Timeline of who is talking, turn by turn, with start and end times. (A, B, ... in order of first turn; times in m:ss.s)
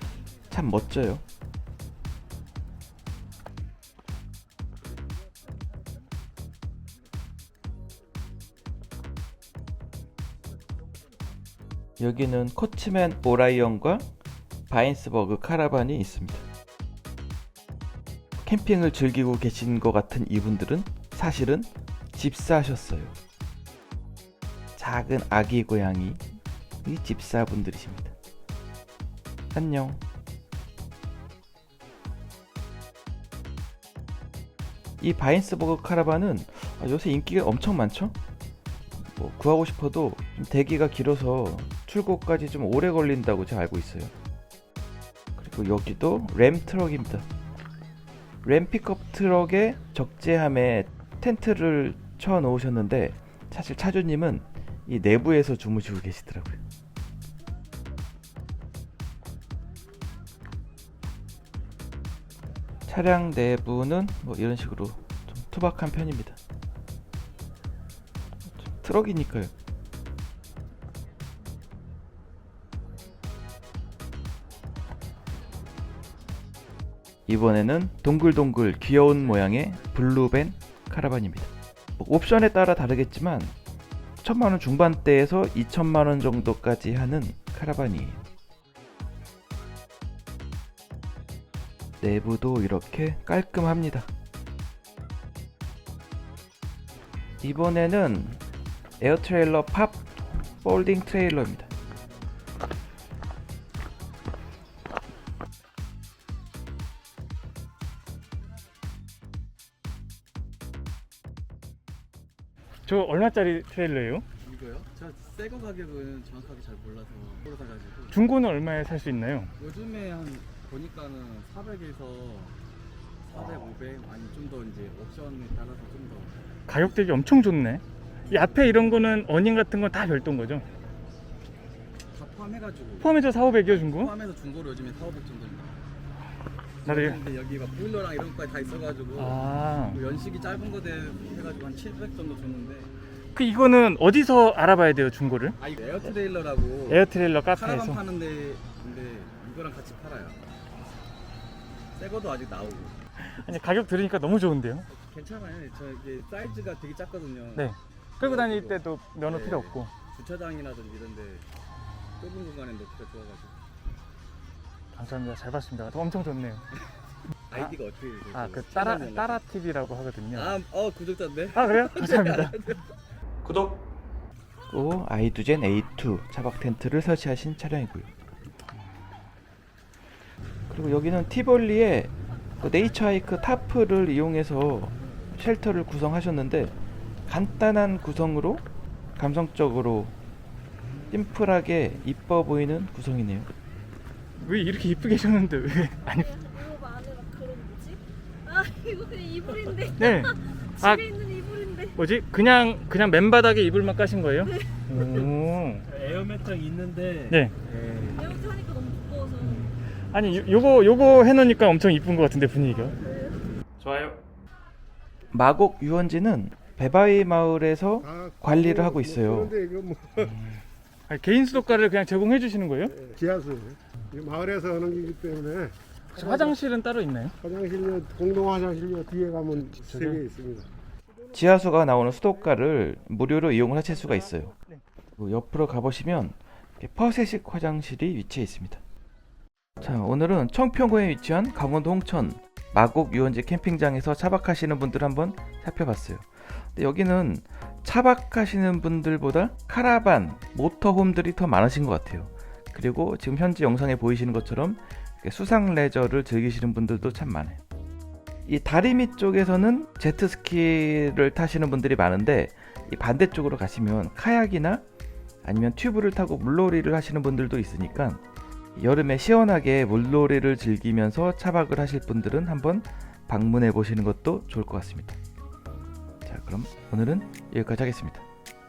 0:00.5-0:01.2 A
0:12.0-0:14.0 A
0:14.7-0:16.5 A
0:18.5-0:23.1 A
0:24.8-0:26.2 A
0:26.8-0:28.1 A
0:29.5-0:30.0 A
0:35.0-0:38.2 A
0:39.1-0:44.1 A
0:45.4-0:47.3 A
0:48.4-0:56.6 A
1:02.9-1:06.4 A
1:08.7-1:09.5 A
1:17.3-1:23.5 A
1:24.2-1:28.2 A
1:32.0-1:34.1 A
1:37.4-1:38.4 A
1:39.0-1:40.1 A
1:40.6-1:41.7 A
1:52.9-1:54.2 B
1:54.4-1:58.2 C
1:58.1-1:59.5 B
1:59.6-2:02.6 C
2:03.2-2:06.4 C
2:06.7-2:10.6 B
2:08.2-2:09.0 C
2:12.1-2:15.8 C
2:13.0-2:14.1 B
2:16.8-2:22.9 C
2:16.9-2:17.2 B
2:19.2-2:20.0 B
2:23.4-2:25.6 B
2:25.6-2:30.4 C
2:26.9-2:28.0 B
2:31.9-2:33.0 C
2:33.2-2:34.9 B
2:34.9-2:41.4 C
2:37.6-2:39.9 B
2:42.2-2:43.6 C
2:44.9-2:46.6 B
2:47.5-2:49.4 C
2:48.3-2:50.6 B
2:50.3-2:52.8 C
2:51.5-2:52.6 B
2:53.4-2:53.8 B
2:54.7-2:58.1 A
3:00.7-3:06.8 A
3:07.3-3:08.6 A
3:09.2-3:10.2 A
3:11.1-3:13.5 A
3:14.4-3:16.8 B
3:16.8-3:19.3 D
3:19.4-3:19.7 C
3:19.8-3:25.9 B
3:25.9-3:28.6 C
3:28.6-3:29.2 D
3:29.3-3:33.0 B
3:33.8-3:34.2 B
3:35.3-3:39.6 A
3:38.0-3:40.3 E
3:40.2-3:42.9 B
3:42.9-3:46.5 E
3:46.2-3:47.3 B
3:47.4-3:50.7 E
3:49.8-3:50.2 B
3:51.3-3:54.5 A
3:53.9-3:54.8 B
3:55.2-3:58.8 A
3:59.8-4:17.6 A
4:18.5-4:24.8 A
4:25.4-4:28.2 A
4:28.8-4:35.2 A
4:36.3-4:38.3 A